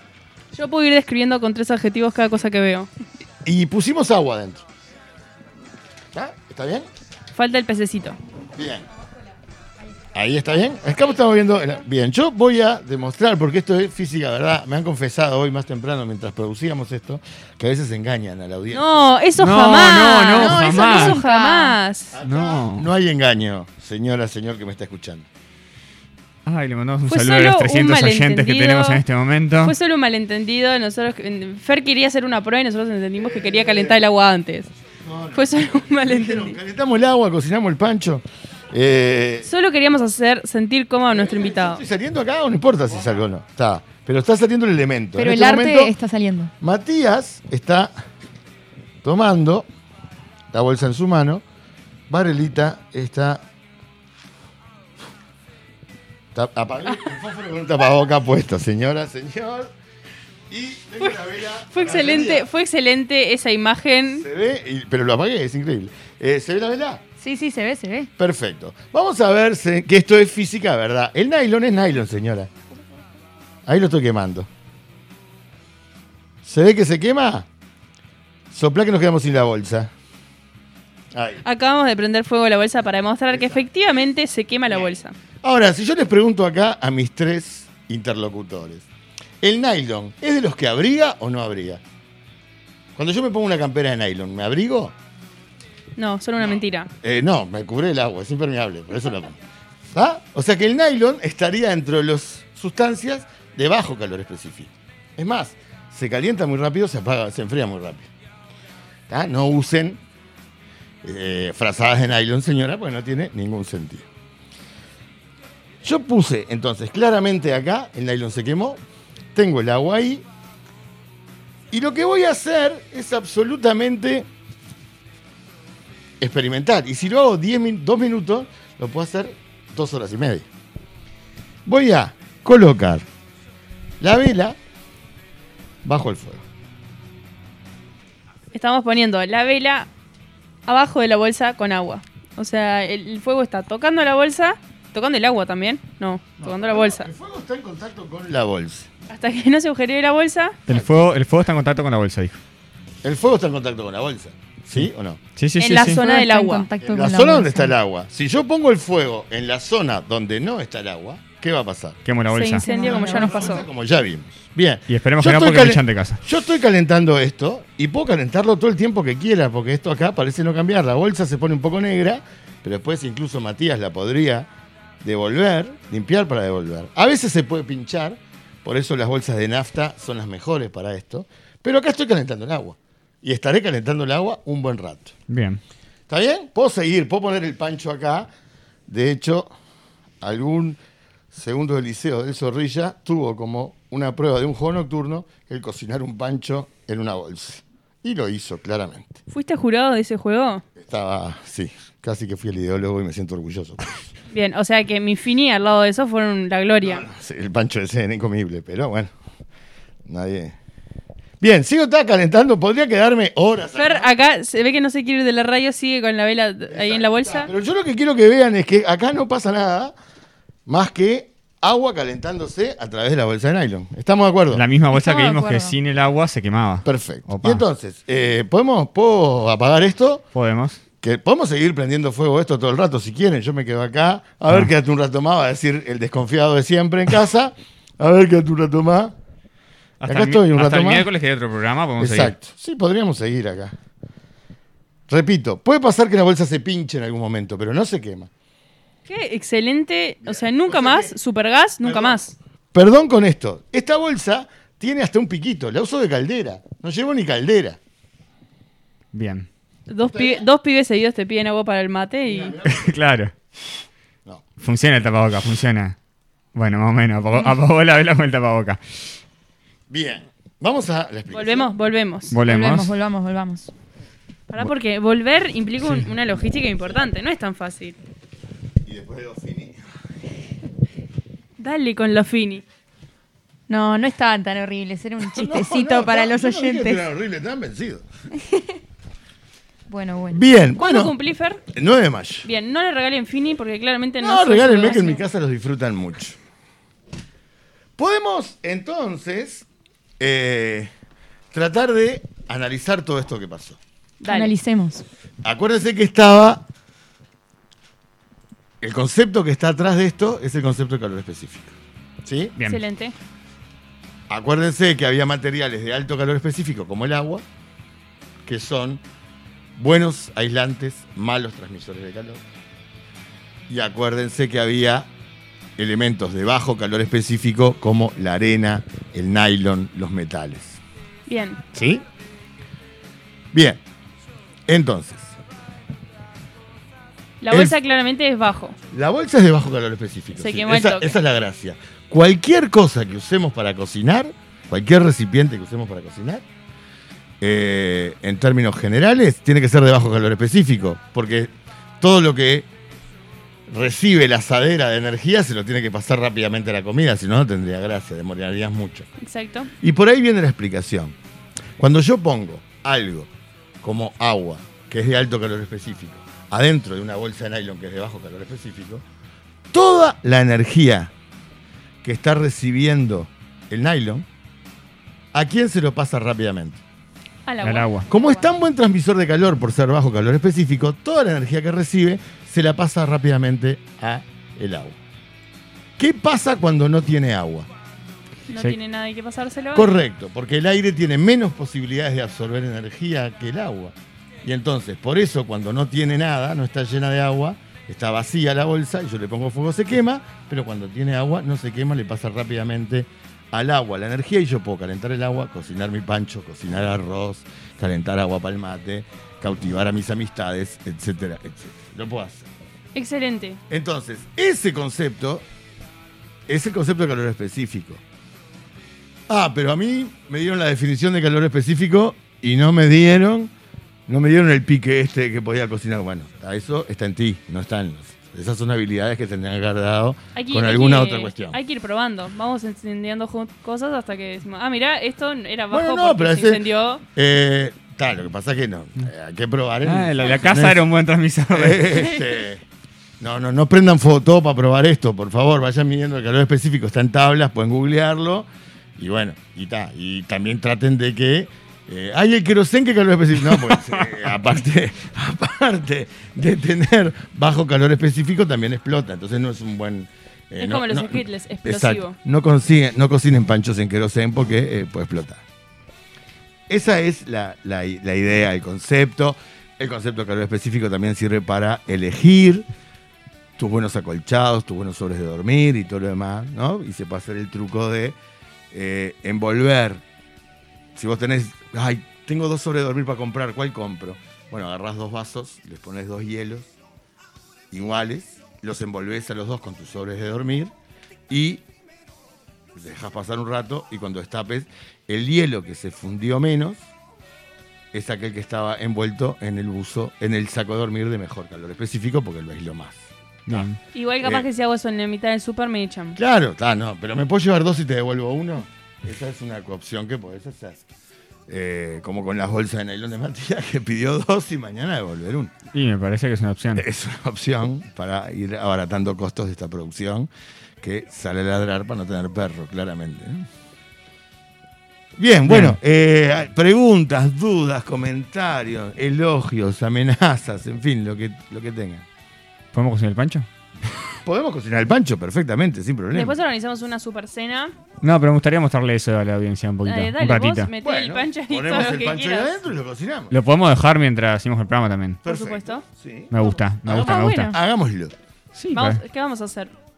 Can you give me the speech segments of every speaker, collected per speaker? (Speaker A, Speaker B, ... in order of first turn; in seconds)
Speaker A: 0.5-2.9, 7.3-8.2, 18.7-22.1, 27.1-29.0, 29.6-34.7, 35.3-36.6, 39.4-41.8, 61.7-64.3, 81.4-85.2, 96.0-96.9, 138.5-139.9, 140.7-147.1, 149.1-150.6, 155.6-156.7, 162.3-163.7, 199.3-200.6, 204.3-207.1, 213.8-217.5, 249.1-252.4, 259.9-262.6, 271.3-272.4, 274.5-278.0, 281.6-282.6, 290.8-291.6, 292.4-295.2, 304.2-304.5, 312.6-313.1, 331.3-331.6, 337.4-338.8, 340.4-341.2, 359.2-359.7, 377.5-378.3, 388.5-390.0, 412.9-413.6, 430.4-437.0, 442.0-442.2, 460.6-462.2, 503.9-506.2, 536.1-537.7, 539.8-542.5, 545.2-545.9, 546.9-547.6, 548.7-549.7
Speaker B: 3.4-4.7, 6.1-6.9, 8.6-8.9, 10.1-19.1, 22.1-25.3, 33.2-34.0, 35.0-39.5, 41.1-45.9, 46.6-47.9, 49.0-49.7, 50.5-51.4, 52.1-53.4, 56.3-59.7, 60.5-62.5, 64.2-67.0, 68.2-72.5, 73.7-74.5, 76.4-77.5, 78.5-79.9, 81.1-81.4, 85.4-88.9, 89.4-91.8, 93.0-95.0, 96.4-99.4, 99.9-108.1, 109.1-110.0, 111.0-114.1, 115.8-118.8, 119.3-120.3, 121.7-124.3, 126.2-130.5, 131.7-133.1, 134.0-134.6, 135.8-136.4, 146.4-148.9, 150.7-150.9, 153.0-155.2, 156.8-162.0, 162.8-174.5, 175.0-185.1, 186.1-188.3, 188.9-189.5, 190.2-190.8, 191.3-199.2, 200.8-204.1, 206.8-209.1, 210.1-210.6, 211.4-214.1, 216.7-219.9, 220.7-224.7, 226.8-230.2, 231.0-239.2, 240.1-241.1, 242.0-243.7, 245.1-248.3, 250.2-251.2, 251.8-257.8, 260.1-260.5, 262.2-263.0, 269.9-271.7, 278.8-279.8, 285.3-288.1, 290.3-291.1, 291.7-292.5, 294.2-296.4, 298.0-299.7, 300.2-300.9, 301.5-303.8, 305.4-306.6, 308.8-312.6, 314.3-317.4, 318.4-319.0, 319.8-322.4, 323.7-325.1, 325.8-330.8, 331.7-332.0, 333.5-333.8, 334.7-335.4, 337.5-337.8, 338.9-346.4, 347.4-352.7, 353.7-359.1, 359.8-361.2, 361.8-363.3, 363.8-369.0, 369.7-371.1, 372.0-374.3, 375.3-376.8, 378.1-385.0, 386.0-387.7, 389.8-412.5, 413.7-415.5, 416.5-418.0, 419.3-423.5, 424.1-431.6, 435.7-440.8, 441.5-442.6, 443.2-465.4, 466.7-472.7, 473.6-478.2, 478.7-480.0, 480.9-486.7, 487.7-490.7, 491.3-491.6, 492.7-496.8, 497.9-503.7, 506.2-510.9, 511.5-515.5, 516.8-520.3, 520.8-523.5, 525.2-532.1, 534.2-536.4, 540.8-543.4, 545.2-548.1
Speaker C: 19.4-21.2, 22.2-22.9, 26.5-29.8, 150.7-152.4, 155.4-156.0, 162.1-162.6, 164.9-166.2, 185.3-185.6, 224.5-227.6, 230.3-230.8, 240.0-242.3, 259.1-259.5, 262.7-263.3, 264.6-266.0, 266.6-269.0, 272.3-272.9, 377.6-378.1, 439.8-442.1, 503.5-503.8, 515.7-516.9, 525.5-525.8, 532.7-533.5, 538.0-540.7, 543.3-545.2, 546.3-547.6, 548.5-549.0
Speaker D: 20.4-21.8, 45.2-46.5, 67.2-68.1, 155.8-157.7, 162.6-163.6, 224.9-225.8, 272.4-273.7, 283.7-287.0, 289.9-290.4, 304.3-305.1